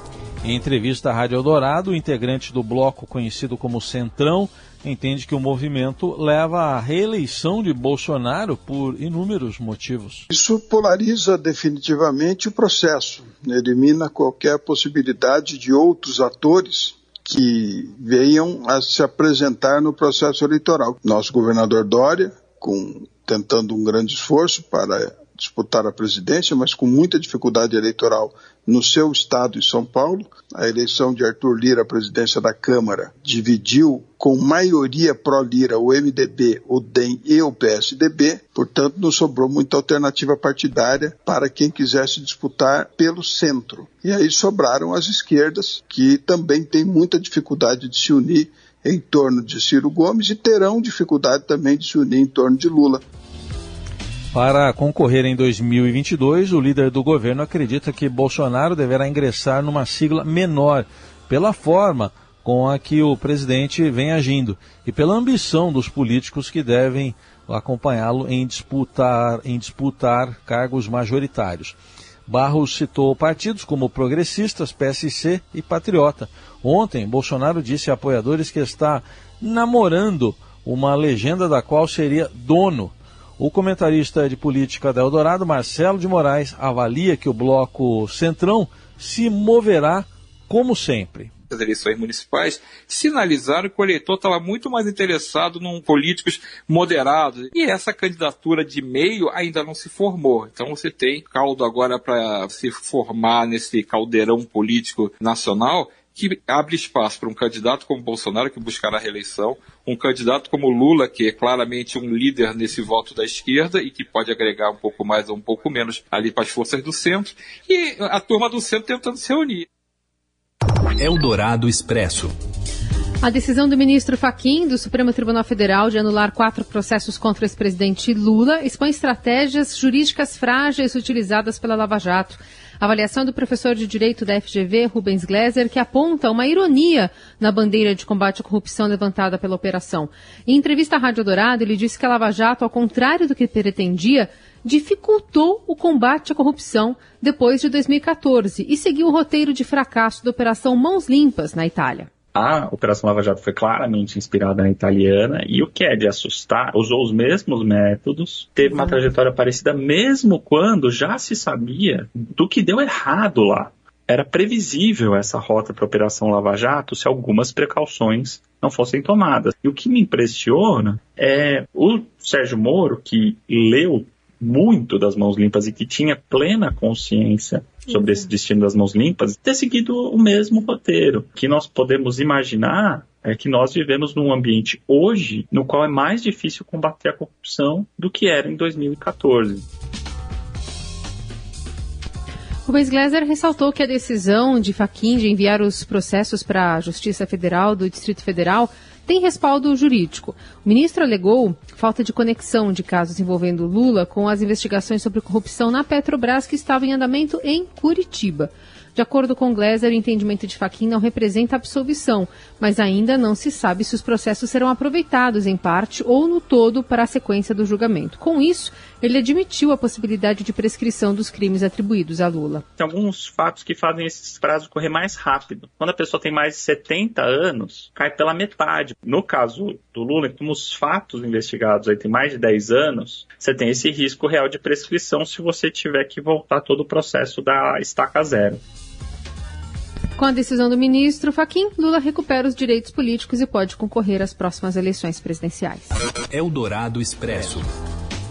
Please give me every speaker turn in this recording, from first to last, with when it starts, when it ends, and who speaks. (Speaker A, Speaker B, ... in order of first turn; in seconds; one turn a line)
Speaker A: 0.4-10.2
Speaker B: 10.3-53.0
Speaker A: 54.3-71.8
Speaker A: 72.3-91.3
Speaker C: 91.5-119.7
Speaker D: 121.0-122.3
Speaker E: 123.2-152.1
Speaker F: 152.3-189.6
Speaker E: 192.7-222.6
Speaker F: 222.8-238.6
Speaker E: 240.2-245.9
Speaker D: 246.3-247.7